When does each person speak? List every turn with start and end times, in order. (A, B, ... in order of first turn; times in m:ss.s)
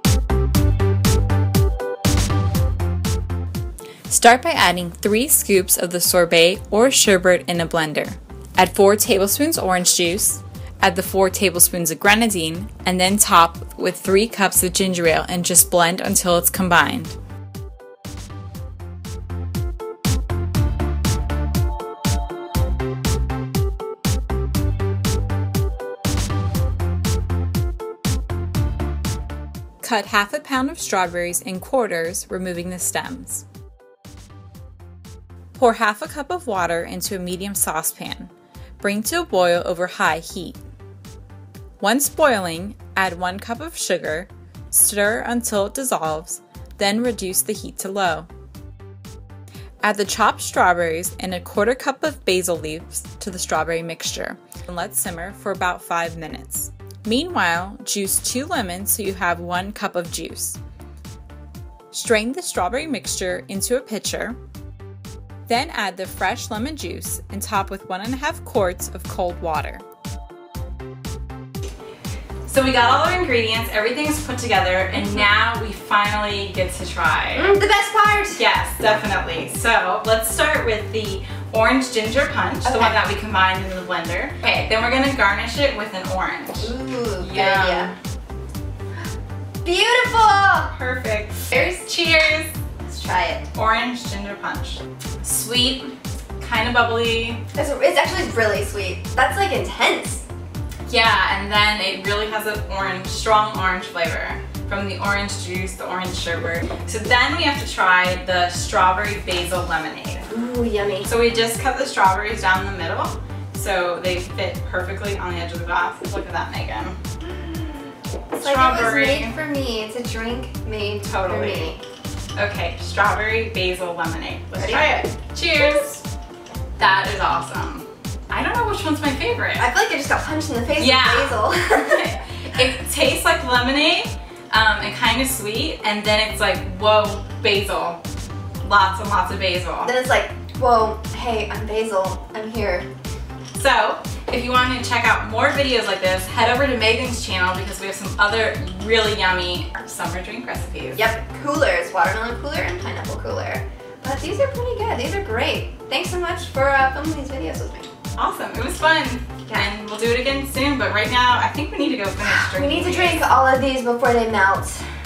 0:04.1-0:17.2 A
0:29.8-0:33.4 A
0:35.6-0:40.6 A
0:41.8-0:48.3 A
0:49.8-1:00.6 A
1:01.9-1:04.4 A
1:05.5-1:09.8 A
1:12.4-1:17.5 A
1:17.3-1:18.4 B
1:18.3-1:28.0 A
1:22.6-1:23.0 B
1:26.6-1:27.9 B
1:29.6-1:30.7 B
1:30.7-1:32.5 A
1:31.5-1:31.8 B
1:32.8-1:33.5 B
1:33.5-1:37.4 A
1:37.5-1:40.2 B
1:40.9-1:50.3 A
1:50.3-1:51.1 B
1:51.0-1:57.0 A
1:57.2-2:01.8 B
1:58.3-1:59.3 A
2:01.0-2:01.7 A
2:02.4-2:06.0 A
2:04.6-2:05.1 B
2:06.8-2:09.7 A
2:09.6-2:12.1 B
2:10.7-2:18.0 A
2:18.6-2:19.9 A
2:19.8-2:22.9 B
2:23.5-2:31.0 A
2:31.0-2:37.9 B
2:38.1-2:43.2 A
2:42.2-2:44.8 B